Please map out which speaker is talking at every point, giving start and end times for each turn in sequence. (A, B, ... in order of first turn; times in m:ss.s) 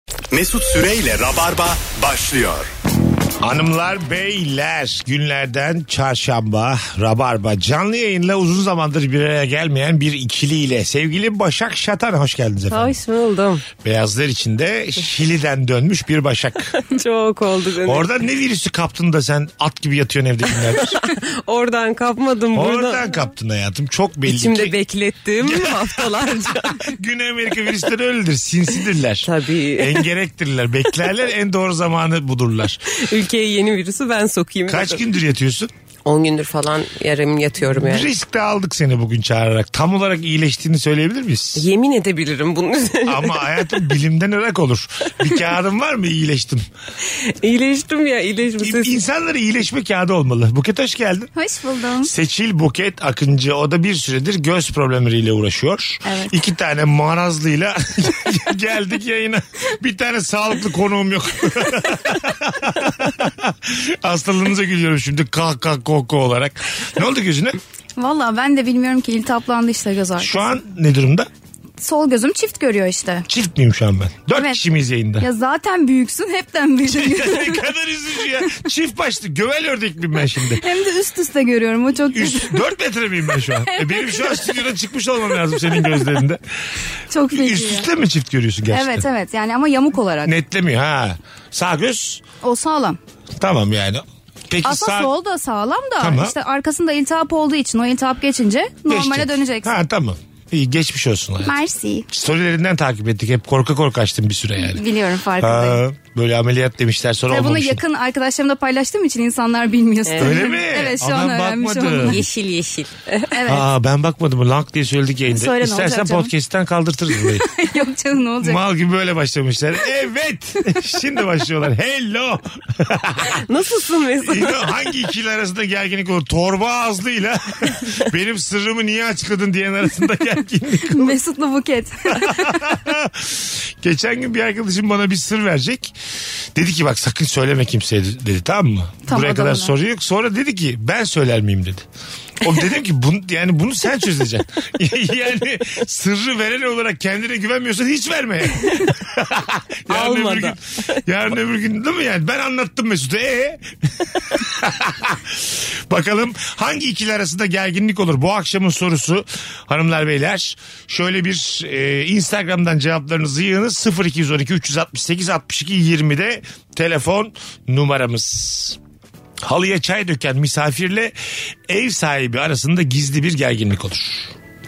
0:00.3-0:02.7 A
0:03.4-0:13.0 B
0:12.7-0:13.7 C
0:13.8-0:16.8 B
0:16.8-0:18.1 C
0:17.8-0:21.0 B
0:20.9-0:23.1 C
0:22.5-0:24.7 B
0:24.3-0:26.9 C
0:25.4-0:32.8 B
0:29.2-0:30.1 C
0:32.9-0:35.1 C
0:34.7-0:35.7 B
0:36.1-0:38.1 C
0:37.7-0:41.7 B
0:41.6-0:43.7 C
0:43.1-0:46.6 B
0:47.2-0:48.9 C
0:48.6-0:51.3 B
0:51.4-0:52.1 D
0:52.0-1:07.6 B
0:56.0-0:56.4 D
1:08.0-1:10.4 D
1:10.2-1:11.3 B
1:11.8-1:13.3 D
1:13.3-1:15.3 B
1:14.3-1:14.6 D
1:15.2-1:17.6 D
1:16.8-1:20.6 B
1:20.6-1:22.6 D
1:22.1-1:26.4 B
1:23.6-1:24.4 D
1:27.1-1:27.9 D
1:27.3-1:29.1 B
1:28.7-1:30.3 D
1:30.2-1:32.2 B
1:32.4-1:33.0 D
1:33.4-1:35.1 B
1:34.6-1:39.7 D
1:36.0-1:36.4 B
1:38.9-1:44.8 B
1:41.4-1:42.1 D
1:44.6-1:45.8 D
1:45.4-1:47.8 B
1:47.3-1:52.2 D
1:50.1-1:50.4 C
1:50.2-1:52.2 B
1:52.0-1:53.3 C
1:53.3-1:53.6 D
1:53.4-1:57.5 B
1:55.3-1:56.3 D
1:57.4-1:58.6 D
1:58.4-2:03.4 B
2:03.2-2:04.7 C
2:04.2-2:11.2 B
2:10.9-2:12.8 D
2:12.1-2:16.0 B
2:16.6-2:21.9 B
2:19.1-2:19.7 D
2:22.4-2:48.8 B
2:29.9-2:30.6 C
2:49.4-2:51.1 B
2:51.7-2:54.3 B